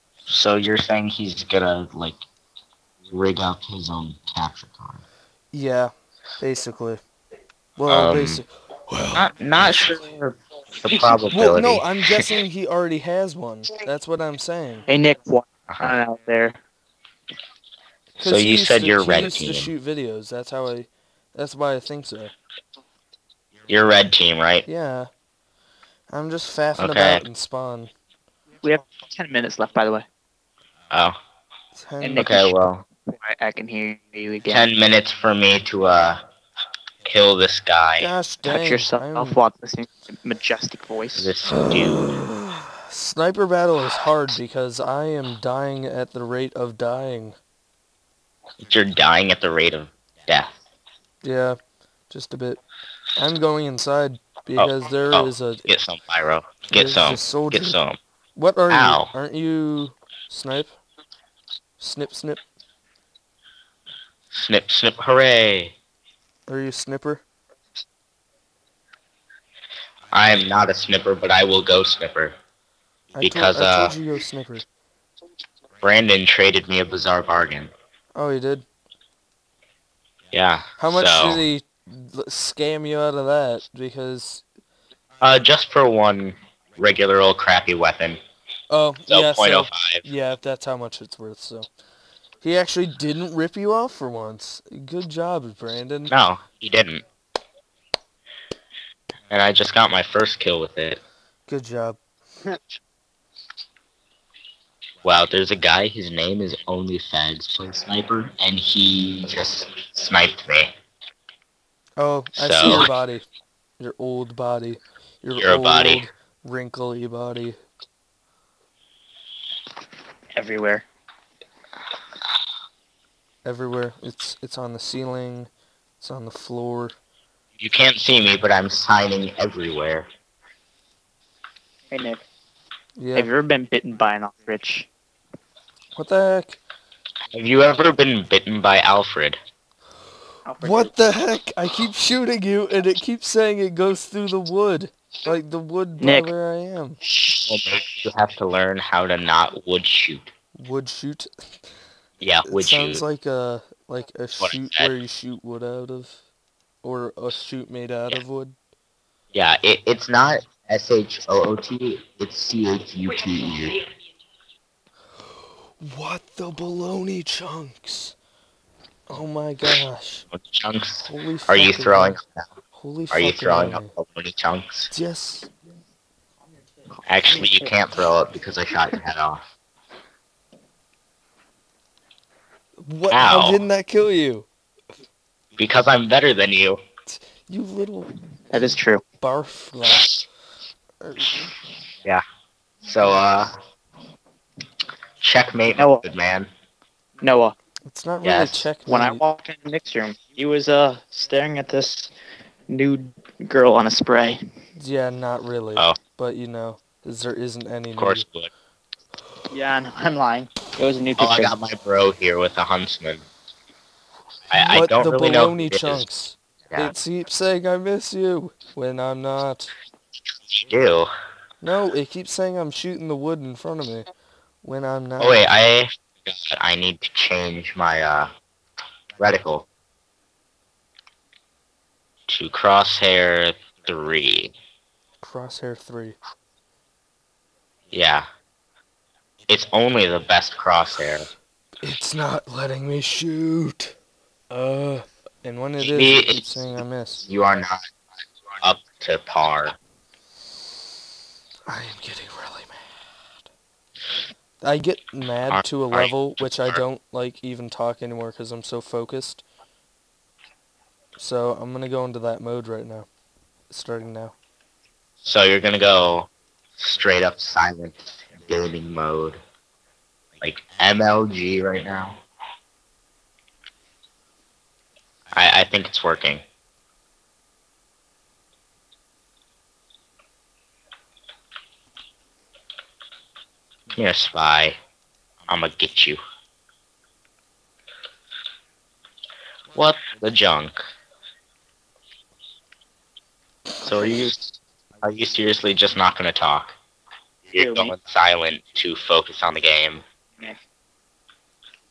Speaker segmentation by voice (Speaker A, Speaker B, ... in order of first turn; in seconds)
Speaker A: 0.2-2.2, 3.1-5.0, 7.9-8.4, 9.1-12.2, 15.7-15.9, 18.2-19.7, 23.7-24.6, 26.8-27.2, 32.2-32.8, 34.5-36.2, 37.0-38.1, 41.1-42.2, 48.6-50.6, 54.6-58.0, 58.7-59.1, 64.3-65.7, 70.1-72.3, 73.2-74.0, 75.8-77.7, 80.3-81.4, 85.2-88.2, 89.1-90.0, 96.1-97.0, 99.3-101.0, 105.0-110.7, 112.3-112.9, 115.4-116.1, 127.6-130.1, 137.3-139.4, 147.4-150.3, 152.2-153.0, 154.4-154.9, 159.3-163.8, 170.3-172.5, 173.1-174.9, 177.1-179.4, 183.1-183.6, 185.6-186.8, 192.8-193.5, 195.2-196.5, 198.2-198.7, 208.0-208.5, 211.2-213.2, 214.5-216.1, 220.5-221.1, 225.2-228.3, 229.2-229.7, 232.3-234.5, 237.9-238.2, 239.5-241.3, 245.8-246.7, 247.2-247.8, 248.6-249.8, 255.5-256.8, 265.2-269.4, 270.4-272.2, 275.3-276.4, 283.9-284.8, 285.5-286.2, 289.7-290.9, 293.8-296.8, 297.5-300.0
Speaker B: 5.5-7.0, 7.8-9.9, 11.3-14.8, 18.2-22.3, 24.6-25.1, 26.1-27.9, 31.8-32.3, 38.0-39.4, 41.5-47.4, 51.2-51.6, 52.1-52.6, 53.1-55.6, 56.7-57.8, 58.4-60.8, 61.8-62.4, 66.5-67.2, 73.1-74.7, 78.1-78.7, 80.8-84.4, 88.7-91.7, 92.4-96.1, 101.5-102.0, 112.0-113.3, 113.8-117.6, 123.4-125.5, 126.0-127.0, 133.0-133.3, 135.9-136.6, 140.6-147.0, 150.6-151.3, 152.4-156.2, 156.8-158.5, 165.8-168.1, 169.1-170.2, 171.0-172.2, 172.7-173.9, 174.9-175.5, 182.8-184.5, 187.1-188.1, 189.2-190.2, 191.0-191.3, 197.8-199.2, 204.8-208.2, 214.6-219.7, 221.6-224.1, 224.6-225.4, 235.2-236.2, 241.8-243.9, 244.5-247.2, 251.7-252.9, 254.6-259.4, 261.2-263.1, 263.7-264.3
Speaker C: 14.9-16.6, 28.6-30.1, 32.0-32.5, 33.1-34.7, 38.4-41.3, 120.3-120.8, 131.9-132.2, 133.1-134.9, 140.4-140.9, 146.0-146.3, 188.5-189.0, 195.7-196.0, 197.2-197.5, 198.8-202.1, 202.7-204.4, 209.5-211.6, 297.5-297.9